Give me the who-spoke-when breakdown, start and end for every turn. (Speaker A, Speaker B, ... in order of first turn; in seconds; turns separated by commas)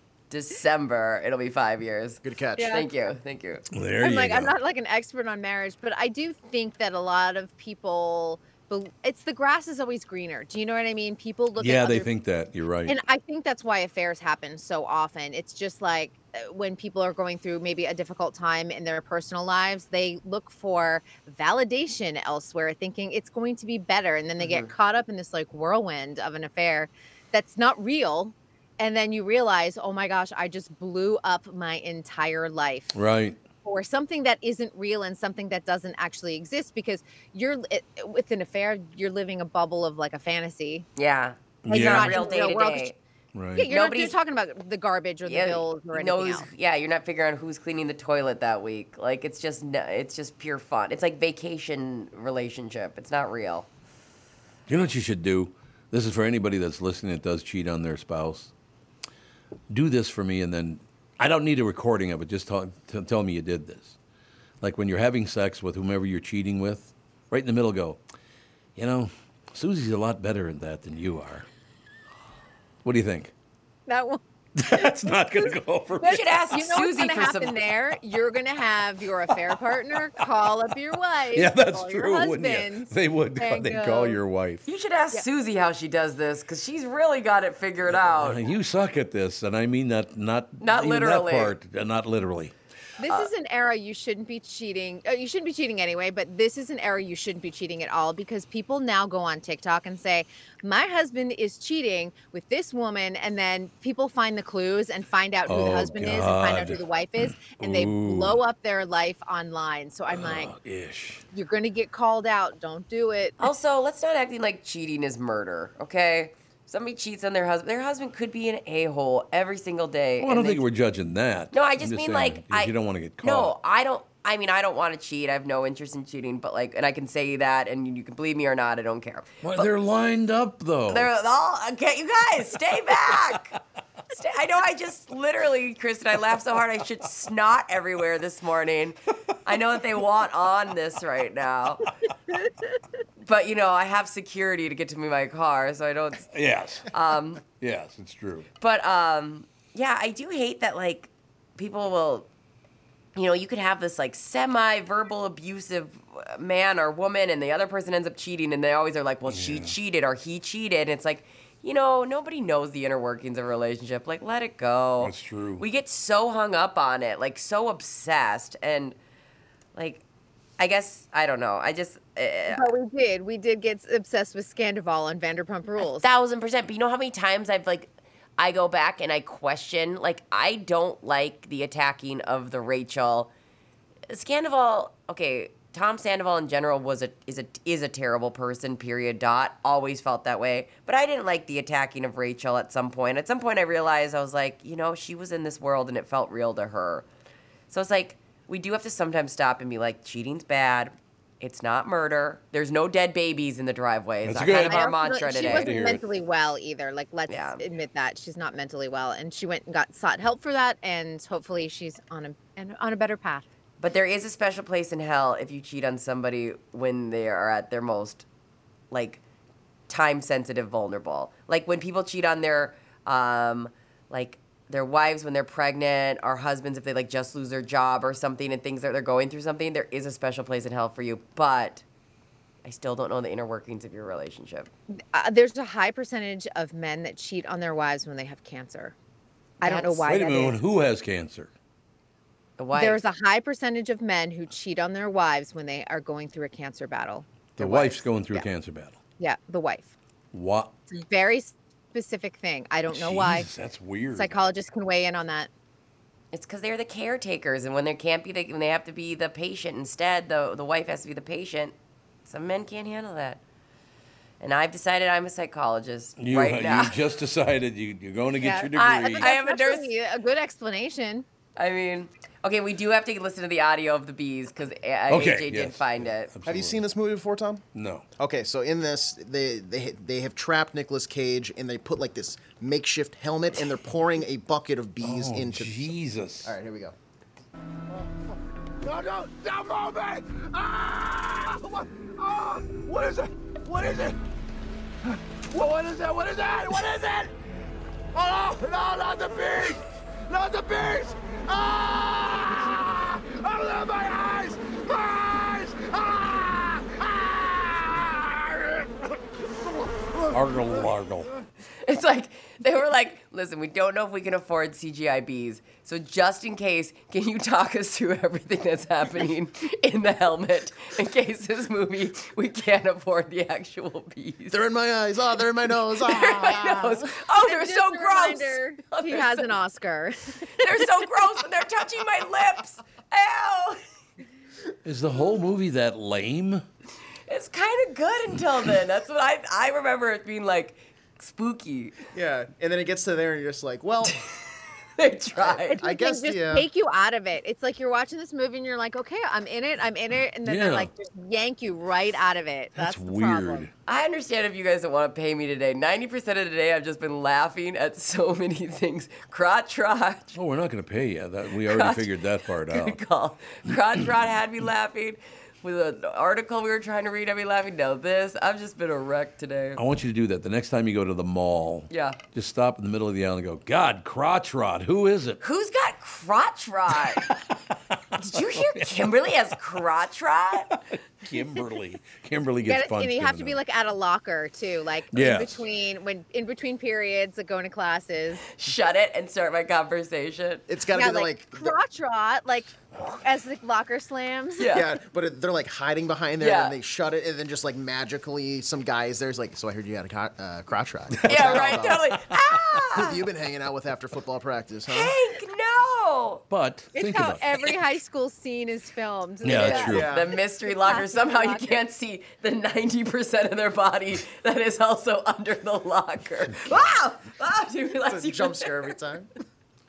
Speaker A: 0.3-3.6, Speaker B: 2.2-2.8, Speaker C: 2.6-2.9, Speaker D: 3.7-4.5, Speaker C: 4.0-12.1, Speaker D: 11.6-13.0, Speaker C: 12.9-33.0, Speaker A: 24.4-24.7, Speaker D: 32.9-33.4, Speaker C: 33.6-40.9, Speaker A: 41.0-43.0, Speaker D: 41.6-42.2, Speaker C: 41.7-42.9, Speaker D: 43.3-43.6, Speaker C: 43.5-46.5, Speaker A: 43.6-44.1, Speaker A: 45.2-53.7, Speaker D: 54.7-58.5, Speaker D: 59.7-64.0, Speaker D: 64.6-68.0, Speaker D: 68.8-71.5, Speaker D: 72.8-73.3, Speaker C: 73.9-74.9, Speaker D: 74.5-76.2, Speaker C: 76.0-84.2, Speaker A: 76.0-77.6, Speaker D: 81.3-84.7, Speaker A: 84.7-88.4, Speaker D: 87.9-92.5, Speaker A: 90.6-91.5, Speaker C: 93.0-110.5, Speaker D: 105.5-106.8, Speaker D: 107.3-108.4, Speaker D: 110.1-111.2, Speaker C: 111.3-113.4, Speaker A: 113.4-120.6, Speaker D: 120.2-123.5, Speaker A: 121.5-129.7, Speaker D: 129.4-131.1, Speaker A: 130.9-133.6, Speaker A: 134.1-141.9, Speaker A: 143.2-146.3, Speaker D: 146.3-146.9, Speaker A: 146.9-147.4, Speaker D: 147.6-148.5, Speaker A: 148.6-152.3, Speaker A: 153.1-168.9, Speaker D: 159.3-159.7, Speaker D: 165.0-165.6, Speaker A: 169.7-170.0, Speaker A: 170.6-172.7, Speaker C: 172.5-176.0, Speaker A: 175.8-183.3, Speaker A: 184.1-197.1, Speaker A: 197.7-205.7, Speaker D: 204.2-206.0, Speaker C: 204.6-213.5, Speaker A: 207.3-207.6, Speaker A: 213.8-218.2, Speaker A: 218.9-219.2, Speaker A: 219.9-231.8, Speaker A: 232.6-234.7, Speaker C: 235.1-238.9, Speaker C: 239.6-240.6, Speaker A: 239.6-240.1, Speaker D: 240.0-241.5, Speaker A: 242.6-243.0, Speaker C: 242.7-248.4, Speaker D: 247.6-249.0, Speaker C: 249.2-249.9, Speaker D: 250.3-250.7, Speaker C: 250.9-253.5, Speaker D: 252.9-254.4, Speaker C: 254.1-255.5, Speaker A: 256.3-261.7, Speaker A: 262.2-263.4, Speaker A: 264.4-267.0, Speaker D: 266.2-269.3, Speaker C: 268.4-271.2, Speaker A: 268.7-269.9, Speaker A: 271.6-276.3, Speaker D: 275.1-276.8, Speaker B: 276.4-277.6, Speaker D: 277.7-278.1, Speaker B: 278.2-285.8, Speaker D: 285.0-286.5, Speaker B: 286.4-286.9, Speaker E: 288.8-294.2, Speaker E: 295.5-297.3, Speaker E: 298.1-308.9, Speaker E: 309.6-310.4, Speaker D: 310.3-311.3, Speaker A: 311.8-324.6, Speaker B: 324.5-327.1, Speaker A: 325.9-329.5, Speaker C: 327.4-330.7, Speaker A: 330.6-333.8, Speaker D: 334.8-336.6, Speaker A: 337.3-342.0, Speaker B: 342.1-344.1, Speaker A: 345.0-345.8, Speaker B: 345.4-346.7, Speaker C: 345.7-353.7, Speaker D: 350.4-350.9, Speaker D: 352.8-353.7, Speaker A: 353.9-360.4, Speaker D: 360.3-363.0, Speaker A: 361.6-362.1, Speaker A: 362.6-369.8, Speaker D: 369.8-375.4, Speaker A: 371.9-372.2, Speaker A: 375.4-377.3, Speaker A: 378.2-380.8, Speaker D: 378.4-378.9, Speaker D: 380.9-383.6, Speaker C: 382.6-388.4, Speaker D: 385.1-385.6, Speaker A: 388.5-390.6, Speaker B: 390.7-391.8, Speaker C: 390.9-394.7, Speaker A: 394.6-394.9, Speaker B: 394.7-402.1, Speaker A: 396.4-396.8, Speaker A: 401.2-403.2, Speaker B: 402.9-405.1, Speaker A: 404.9-406.4, Speaker D: 406.5-407.7, Speaker C: 406.9-410.0, Speaker D: 409.4-410.2, Speaker A: 409.6-418.9, Speaker B: 409.8-410.3, Speaker C: 410.6-411.8, Speaker B: 418.1-419.3